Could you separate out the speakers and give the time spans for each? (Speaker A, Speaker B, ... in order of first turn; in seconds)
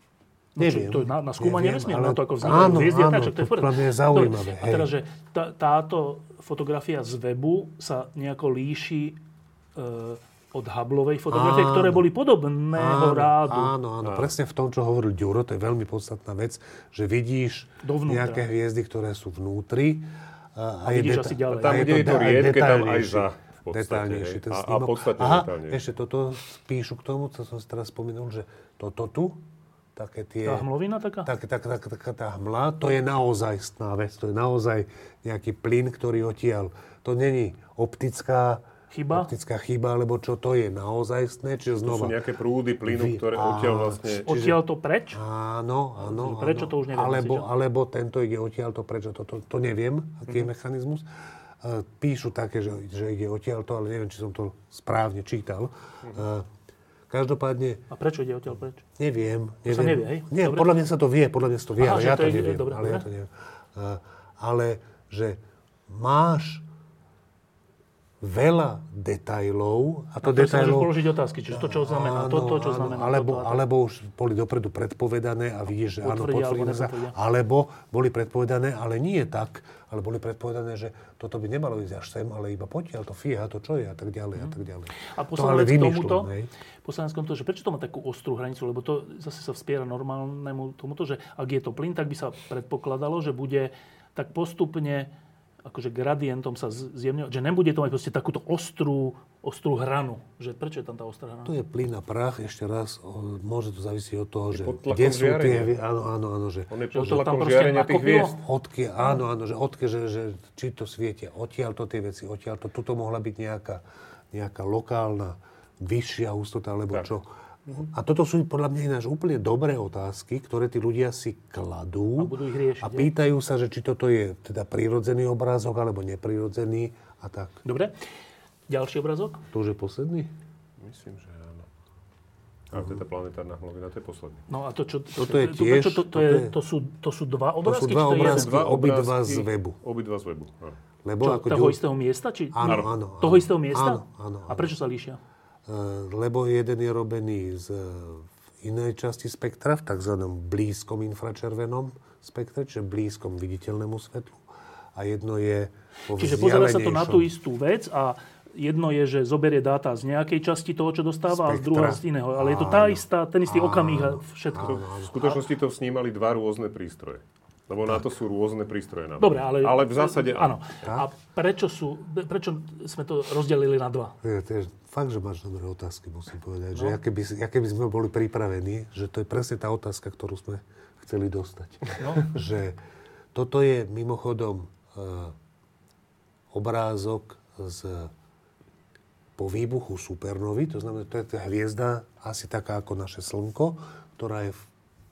Speaker A: 0.6-9.2, 9.8-13.7, 17.8-18.4, 20.9-22.2, 30.4-31.3, 38.9-39.3, 44.2-45.2, 46.0-47.5, 57.9-58.8, 59.7-60.7, 61.8-63.0, 70.2-73.6, 76.0-77.1, 85.1-86.3, 86.8-95.1, 95.6-101.5, 106.9-108.4, 122.2-123.1, 127.6-127.9, 128.7-129.4, 134.5-138.5, 141.2-145.2, 156.1-164.8, 169.2-174.2, 182.0-182.2
Speaker B: 0.6-4.9, 11.3-12.1, 12.7-29.4, 29.9-30.7, 31.2-42.1, 42.9-44.6, 45.1-51.0, 51.6-56.5, 57.1-57.8, 59.0-66.7, 68.2-71.0, 71.5-86.5, 101.5-106.7, 108.4-127.6, 129.5-130.3, 135.2-136.5, 137.6-139.8, 141.0-141.8, 142.5-144.7, 145.7-154.4, 154.9-157.3, 161.3-165.1, 174.2-182.8, 183.3-185.3, 186.5-188.1, 189.4-194.7
Speaker C: 14.0-14.3, 21.5-25.8, 41.8-44.3, 104.5-105.7, 106.7-108.4, 130.8-131.7, 132.7-134.4, 138.2-140.8, 164.6-170.8